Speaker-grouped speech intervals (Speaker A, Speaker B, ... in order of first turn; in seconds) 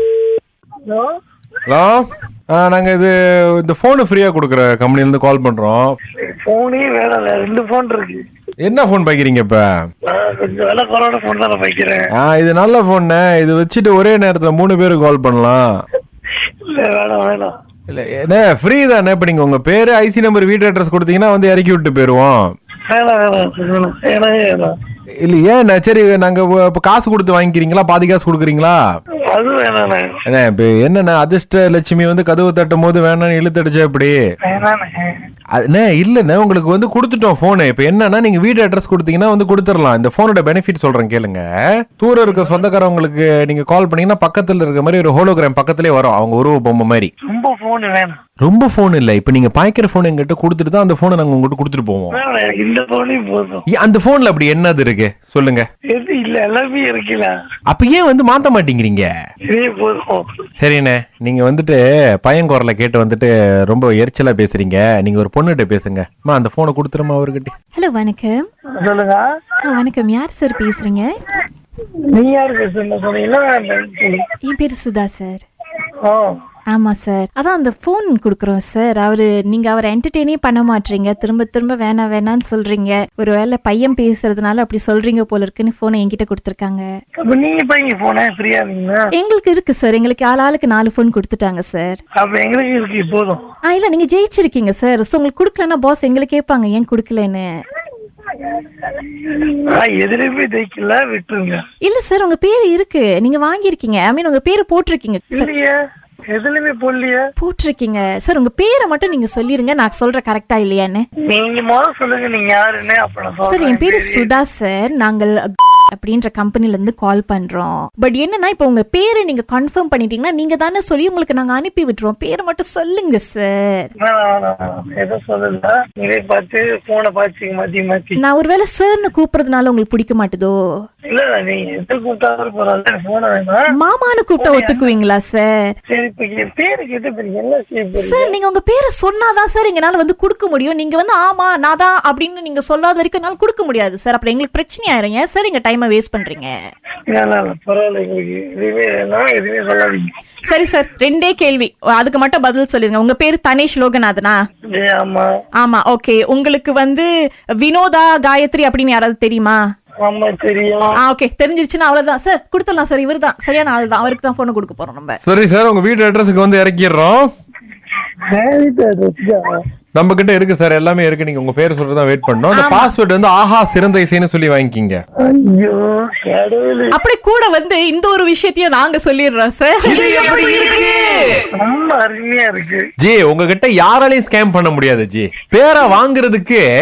Speaker A: 1.7-6.0, 8.6-9.8, 12.1-15.8, 17.9-22.5, 25.2-28.8, 30.3-34.2, 35.5-41.4, 42.0-47.1, 48.4-52.2, 53.7-55.6, 57.7-59.1, 60.6-67.5, 165.2-167.3, 170.0-175.0, 180.1-180.7, 183.0-186.6
Speaker B: 6.1-8.2, 10.1-12.1, 16.7-17.5, 22.9-24.7, 29.3-30.1, 34.4-35.1, 42.3-42.6, 47.2-48.2, 52.1-53.6, 55.9-57.3, 59.5-60.2, 68.8-69.2, 72.1-74.2, 76.0-76.3, 87.2-89.0, 92.2-93.4, 98.3-101.6, 105.3-105.7, 106.3-107.2, 111.3-114.3, 124.0-128.2, 131.1-133.6, 134.4-134.9, 135.9-138.3, 147.1-150.1, 154.7-155.3, 160.0-161.0, 168.3-169.6, 175.2-176.9, 181.6-182.8
Speaker C: 67.7-68.3, 69.6-71.1, 74.4-75.4, 76.7-86.8, 89.1-92.0, 93.7-97.5, 101.8-105.5, 107.4-111.0, 113.5-123.9, 128.2-130.5, 133.7-135.8, 138.0-146.5, 150.4-154.4, 155.6-157.1, 157.6-159.6, 161.0-165.2, 172.5-172.9, 176.9-181.0